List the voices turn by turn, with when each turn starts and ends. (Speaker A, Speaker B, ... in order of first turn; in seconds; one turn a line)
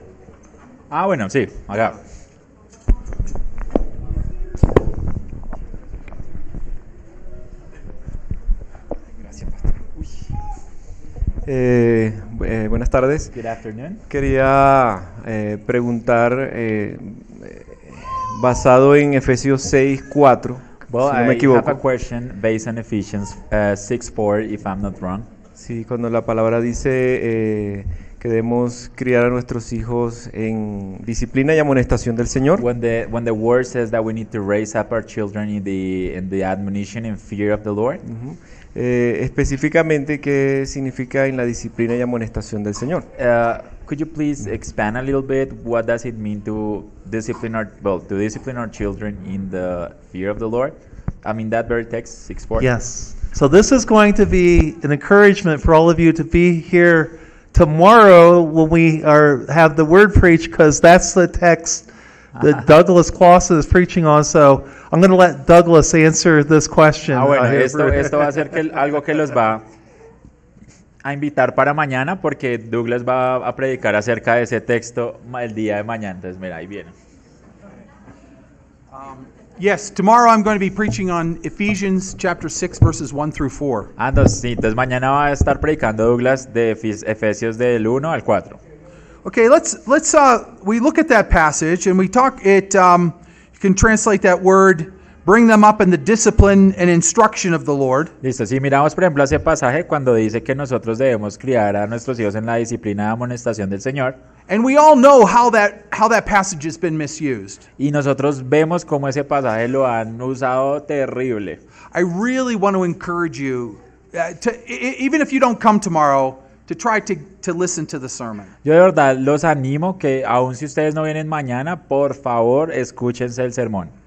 Speaker A: 0.9-2.0
Speaker B: 9.3-9.7
Speaker B: 11.4-13.3
Speaker A: 13.3-14.0
Speaker B: 14.1-21.8
Speaker A: 20.9-25.3
Speaker B: 25.6-32.6
Speaker A: 32.6-38.0
Speaker B: 38.1-43.1
Speaker A: 43.2-52.7
Speaker C: 52.6-68.2
Speaker A: 62.4-62.7
Speaker A: 67.1-69.6
Speaker A: 71.0-76.9
Speaker D: 78.9-83.9
Speaker A: 84.0-88.6
Speaker D: 89.2-98.1
Speaker A: 98.2-104.2
Speaker D: 104.5-107.6
Speaker A: 107.8-111.6
Speaker D: 111.9-118.5
Speaker A: 118.6-123.9